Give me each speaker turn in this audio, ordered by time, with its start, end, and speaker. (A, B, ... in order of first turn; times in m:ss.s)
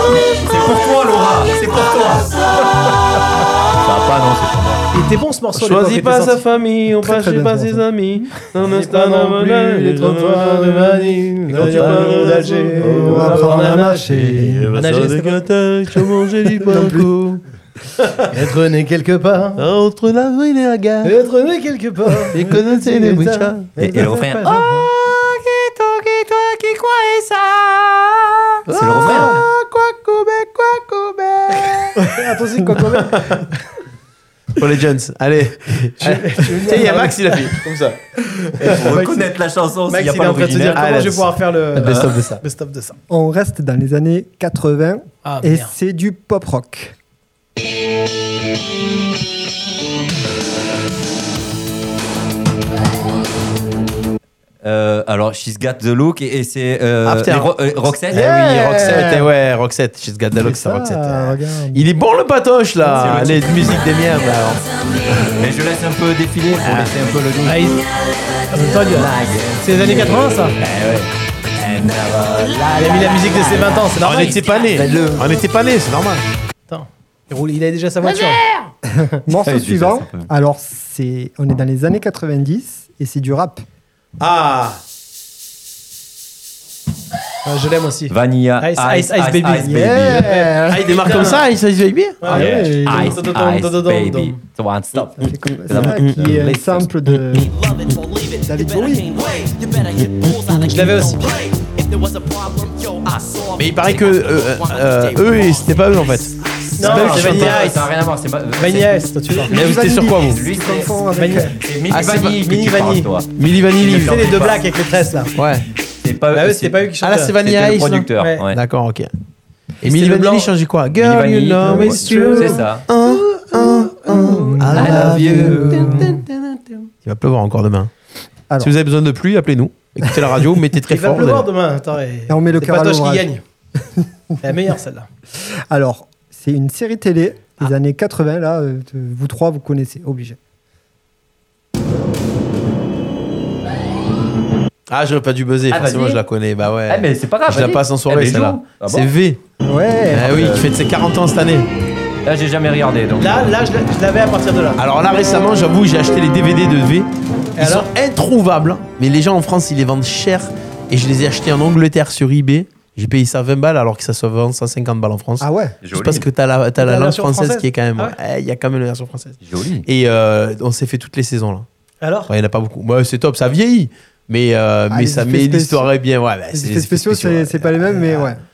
0:00.3-0:02.9 A
0:03.8-0:04.8 A
0:04.9-0:06.4 B
0:05.6-0:17.4 C
0:07.0-0:07.9 D
0:08.6-0:15.4 B
0:11.6-0:12.1 A
0:12.8-0:14.7 D
0:12.8-0:13.2 A
0:16.6-0:17.1 D
0:18.0-0:18.2 C
0:18.3-0:19.6 B
0:19.6-0:21.1 C
0:21.0-0:24.8 B
0:22.3-0:23.7 C
0:23.8-0:29.4 A
0:23.8-0:24.6 D
0:28.7-0:32.0 C
0:29.0-0:29.4 B
0:31.5-0:33.4 B
0:32.9-0:33.4 C
0:34.6-0:38.0 C
0:36.0-0:37.5 B
0:38.6-0:38.9 C
0:38.6-0:40.9 A
0:38.9-0:39.2 B
0:39.9-0:43.0 B
0:40.6-0:42.4 C
0:43.1-0:46.9 D
0:45.2-0:45.7 B
0:54.6-0:58.3 A
0:57.0-1:05.4 C
0:58.1-0:59.3 D
1:00.4-1:01.8 D
1:02.9-1:03.8 A
1:05.2-1:07.7 A
1:06.6-1:06.9 C
1:07.4-1:07.8 B
1:08.5-1:09.1 B
1:08.7-1:15.2 A
1:09.6-1:10.6 B
1:12.7-1:14.5 B
1:14.0-1:16.2 C
1:16.7-1:18.4 B
1:18.9-1:23.6 D
1:19.4-1:20.3 A
1:24.2-1:24.8 C
1:27.4-1:31.4 B
1:28.1-1:30.3 A
1:29.6-1:31.0 D
1:30.7-1:32.3 C
1:32.2-1:34.4 B
1:32.3-1:33.2 D
1:32.3-1:36.9 A
1:35.2-1:37.5 D
1:35.2-1:36.2 C
1:38.4-1:39.2 D
1:40.6-1:41.3 B
1:43.6-1:47.6 C
1:43.8-1:44.4 A
1:46.8-1:47.9 B
1:46.8-1:49.0 A
1:48.6-1:49.5 B
1:49.3-1:51.5 D
1:49.5-1:50.4 C
1:50.1-1:54.6 A
1:51.1-1:51.5 B
1:51.9-1:52.5 C
1:52.4-1:53.1 B
1:53.4-1:54.2 C
1:53.9-1:55.3 B
1:55.4-1:55.7 C
1:55.7-1:56.9 A
1:56.3-1:57.4 B
1:57.0-1:59.1 C
1:57.4-1:58.6 A
1:58.2-1:58.4 B
1:59.8-2:05.6 C
1:59.8-2:00.5 B
2:01.0-2:02.8 A
2:01.6-2:06.9 B
2:04.1-2:06.2 D
2:04.7-2:06.0 A
2:07.0-2:07.9 C
2:08.6-2:11.5 C
2:10.9-2:13.4 B
2:12.3-2:13.3 D
2:14.4-2:15.1 B
2:15.4-2:20.4 D
2:24.9-2:29.4 C
2:25.7-2:26.2 A
2:26.9-2:29.1 A
2:29.6-2:30.5 D
2:30.1-2:31.7 C
2:30.2-2:30.7 A
2:32.2-2:33.5 A
2:33.2-2:34.8 B
2:34.8-2:51.7 C
2:37.6-2:37.9 B
2:45.4-2:45.8 D
2:45.8-2:46.2 A
2:46.8-2:48.2 B
2:49.4-2:49.8 A
2:52.0-2:52.3 B
2:52.3-2:58.2 C
2:54.9-2:55.9 D
2:56.5-2:58.4 D